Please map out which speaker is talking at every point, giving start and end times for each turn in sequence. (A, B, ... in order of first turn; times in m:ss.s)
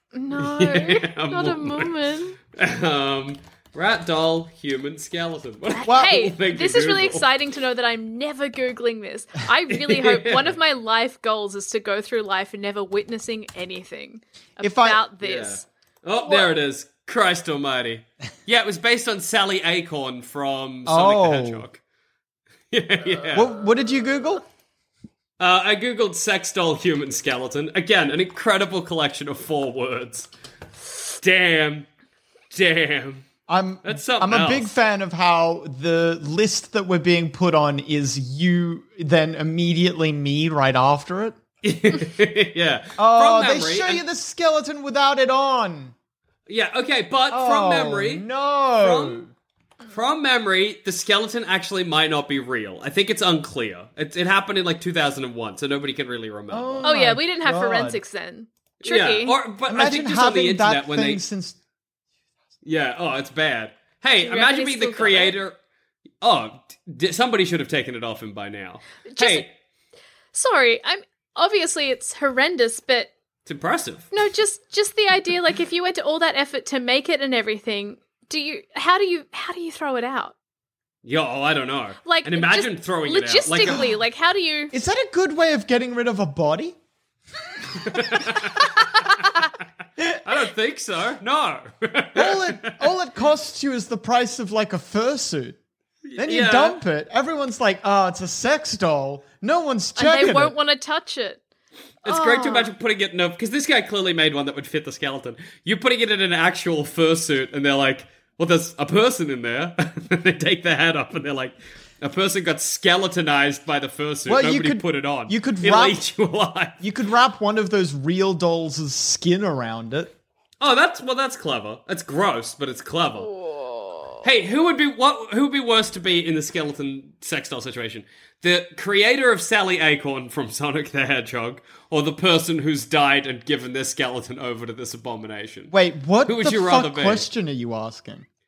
0:00.1-0:02.4 A
0:00.4-0:01.9 B
0:02.6-0:07.3 B
0:05.7-0:15.6 A
0:05.8-0:06.2 C
0:09.7-0:10.6 B
0:14.6-0:15.0 C
0:15.2-0:21.8 B
0:16.2-0:16.5 A
0:20.8-0:21.6 C
0:22.7-0:23.5 B
0:23.3-0:24.4 C
0:25.4-0:30.3 B
0:31.1-0:31.9 B
0:32.5-0:33.2 B
0:33.5-0:41.4 C
0:33.8-0:34.7 B
0:41.6-0:44.0 B
0:43.0-0:45.9 C
0:46.5-0:48.2 B
0:47.3-0:49.3 C
0:48.8-0:49.2 B
0:49.9-0:56.9 B
0:56.5-0:58.0 C
0:56.8-0:59.4 A
0:58.8-1:01.2 B
0:59.7-1:01.6 C
1:02.6-1:05.6 B
1:04.2-1:05.4 A
1:06.2-1:09.5 B
1:09.1-1:09.5 A
1:10.3-1:13.1 A
1:13.4-1:14.1 B
1:14.1-1:20.3 A
1:21.0-1:23.8 B
1:22.0-1:24.7 A
1:24.7-1:26.8 C
1:27.8-1:28.6 B
1:30.2-1:32.7 B
1:32.1-1:35.6 C
1:36.1-1:36.8 B
1:36.2-1:40.5 C
1:40.0-1:41.4 A
1:42.0-1:56.7 B
1:42.0-1:42.7 A
1:54.2-1:56.0 C
1:56.8-2:00.1 C
2:00.6-2:03.3 B
2:03.2-2:04.2 A
2:04.2-2:15.7 B
2:15.7-2:18.2 C
2:16.2-2:17.2 B